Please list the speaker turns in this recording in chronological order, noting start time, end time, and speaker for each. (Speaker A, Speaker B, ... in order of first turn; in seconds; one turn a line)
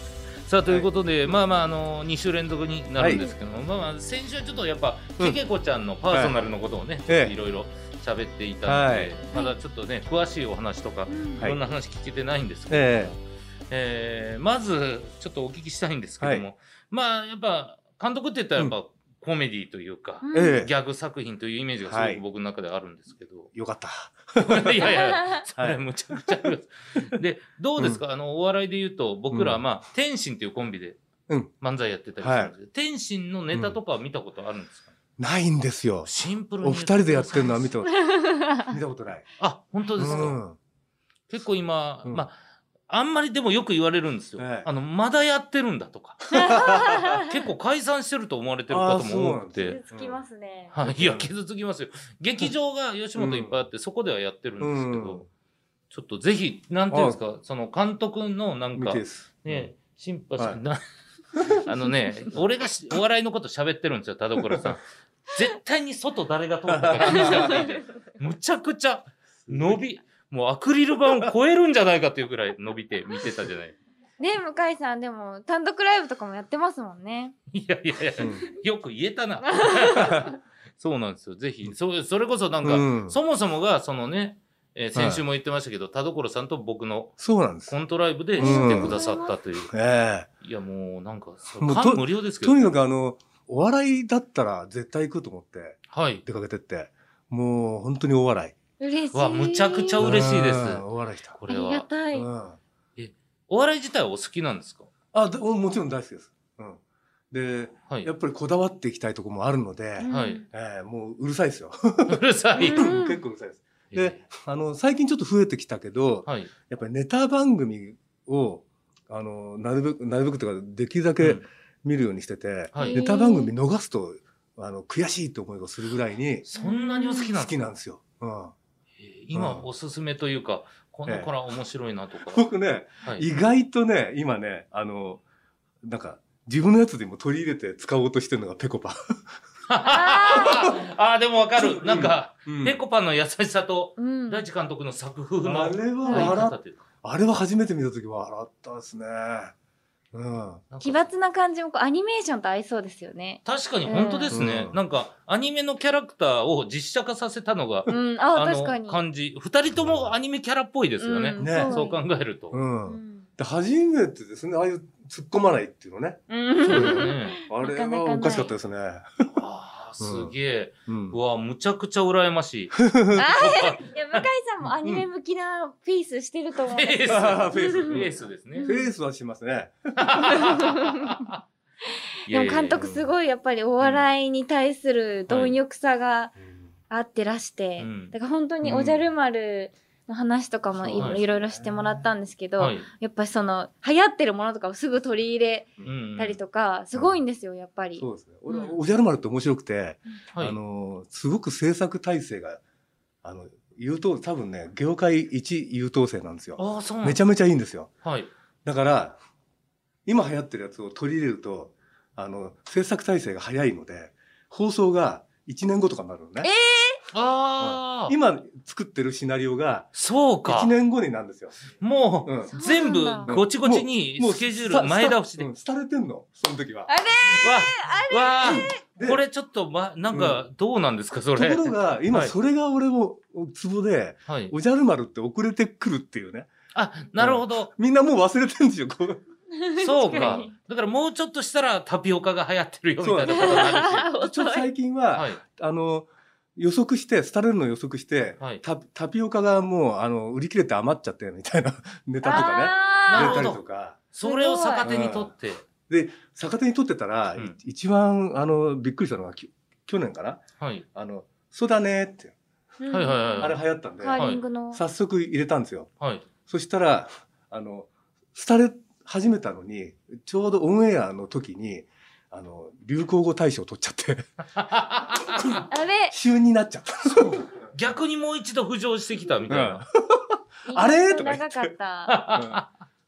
Speaker A: 0.4-23.5
Speaker B: 3.0-3.3
Speaker C: 3.1-3.3
Speaker B: 6.1-6.4
Speaker B: 7.1-7.3
Speaker B: 8.6-9.1
Speaker C: 11.1-11.4
Speaker B: 12.7-13.1
Speaker B: 16.2-16.5
Speaker C: 20.2-20.6
Speaker B: 20.3-20.7
Speaker B: 21.8-22.2
Speaker B: 23.5-25.0
Speaker A: 24.4-31.0
Speaker B: 25.6-26.5
Speaker B: 29.3-29.6
Speaker A: 31.6-34.9
Speaker B: 32.2-32.5
Speaker B: 33.5-33.8
Speaker B: 35.2-36.1
Speaker A: 36.0-37.8
Speaker B: 36.6-38.0
Speaker C: 37.9-38.7
Speaker B: 38.6-39.3
Speaker A: 39.4-40.4
Speaker B: 40.0-40.6
Speaker A: 41.3-42.3
Speaker A: 42.9-46.4
Speaker B: 44.4-44.7
Speaker B: 46.3-47.2
Speaker C: 46.3-47.3
Speaker A: 47.1-49.8
Speaker B: 48.7-50.2
Speaker C: 49.5-50.7
Speaker A: 50.7-55.2
Speaker B: 50.8-51.3
Speaker B: 53.1-53.6
Speaker B: 54.6-55.3
Speaker A: 55.9-60.8
Speaker B: 56.9-57.2
Speaker B: 58.7-59.7
Speaker B: 61.3-61.6
Speaker A: 61.5-73.8
Speaker B: 64.4-64.7
Speaker B: 66.7-67.7
Speaker C: 67.2-67.7
Speaker B: 69.4-69.8
Speaker C: 74.2-77.3
Speaker A: 77.5-89.7
Speaker B: 78.2-78.4
Speaker C: 79.6-80.1
Speaker B: 80.0-80.2
Speaker B: 82.6-83.2
Speaker B: 84.9-85.2
Speaker B: 87.2-87.8
Speaker C: 88.3-89.3
Speaker B: 88.4-89.0
Speaker B: 89.7-90.3
Speaker A: 90.4-92.7
Speaker B: 91.6-98.5
Speaker A: 95.9-96.2
Speaker C: 98.8-100.2
Speaker A: 99.1-101.9
Speaker B: 100.0-101.4
Speaker C: 101.5-102.3
Speaker B: 102.1-102.6
Speaker A: 103.0-104.9
Speaker B: 105.1-126.5
Speaker C: 110.0-110.4
Speaker A: 110.1-110.4
Speaker A: 112.1-112.9
Speaker C: 112.6-113.2
Speaker A: 113.9-114.2
Speaker A: 116.2-116.5
Speaker A: 122.7-123.0
Speaker C: 122.8-123.5
Speaker A: 126.5-127.7
Speaker C: 126.5-127.3
Speaker B: 127.1-128.5
Speaker A: 129.0-132.5
Speaker B: 129.3-129.7
Speaker B: 132.3-135.2
Speaker B: 135.8-139.0
Speaker A: 139.7-146.8
Speaker C: 139.8-140.7
Speaker B: 140.4-140.8
Speaker B: 141.6-142.8
Speaker C: 144.0-144.4
Speaker B: 145.4-149.5
Speaker C: 146.0-146.4
Speaker B: 150.1-150.6
Speaker A: 150.7-151.1
Speaker C: 150.8-154.4
Speaker A: 153.4-162.6
Speaker B: 154.3-154.8
Speaker C: 157.9-159.0
Speaker B: 159.7-160.1
Speaker C: 161.0-162.0
Speaker B: 161.4-161.8
Speaker B: 162.5-169.3
Speaker C: 162.9-163.2
Speaker C: 166.3-168.5
Speaker A: 166.6-167.4
Speaker A: 169.3-174.2
Speaker B: 170.0-170.3
Speaker B: 170.9-171.2
Speaker B: 172.8-173.2
Speaker C: 173.1-178.9
Speaker B: 174.7-175.1
Speaker A: 176.7-178.7
Speaker B: 177.1-180.5
Speaker A: 180.0-181.4
Speaker C: 180.2-181.3
Speaker C: 182.2-186.3
Speaker A: 182.3-182.8
Speaker B: 182.8-183.1
Speaker A: 183.8-184.1
Speaker A: 185.3-185.6
Speaker C: 186.9-198.7
Speaker A: 187.8-188.1
Speaker B: 188.6-189.1
Speaker B: 190.7-191.9
Speaker A: 192.6-192.8
Speaker A: 195.8-196.4
Speaker B: 198.0-202.6
Speaker B: 203.2-207.9
Speaker A: 206.6-207.2
Speaker A: 208.0-208.3
Speaker B: 208.6-209.2
Speaker B: 210.1-216.5
Speaker C: 216.4-217.0
Speaker A: 217.1-218.1
Speaker B: 217.6-219.9
Speaker A: 219.9-220.7
Speaker B: 220.4-221.7
Speaker A: 221.8-225.5
Speaker B: 222.2-222.5
Speaker C: 222.5-223.3
Speaker B: 223.3-226.9
Speaker C: 226.9-228.8
Speaker A: 227.3-232.3
Speaker B: 228.4-229.2
Speaker B: 230.1-230.4
Speaker B: 231.3-236.5
Speaker A: 234.3-234.5
Speaker A: 236.7-237.7
Speaker B: 237.2-239.2
Speaker C: 239.5-240.5
Speaker A: 239.8-244.1
Speaker B: 240.1-240.4
Speaker B: 243.0-254.0
Speaker C: 243.3-244.7
Speaker A: 245.1-245.4
Speaker C: 252.2-253.5
Speaker A: 252.3-253.6
Speaker A: 254.1-255.7
Speaker C: 254.2-254.9
Speaker B: 254.8-255.3
Speaker B: 255.9-262.3
Speaker A: 260.6-260.9
Speaker C: 262.8-264.8
Speaker A: 262.9-263.6
Speaker B: 263.4-265.9
Speaker A: 264.1-264.4
Speaker A: 266.0-266.2
Speaker B: 266.4-274.3
Speaker A: 274.6-275.6
Speaker B: 275.3-277.5
Speaker C: 275.7-276.1
Speaker A: 277.1-279.8
Speaker B: 279.5-281.7
Speaker C: 280.6-282.2
Speaker A: 282.1-282.6
Speaker B: 282.3-282.6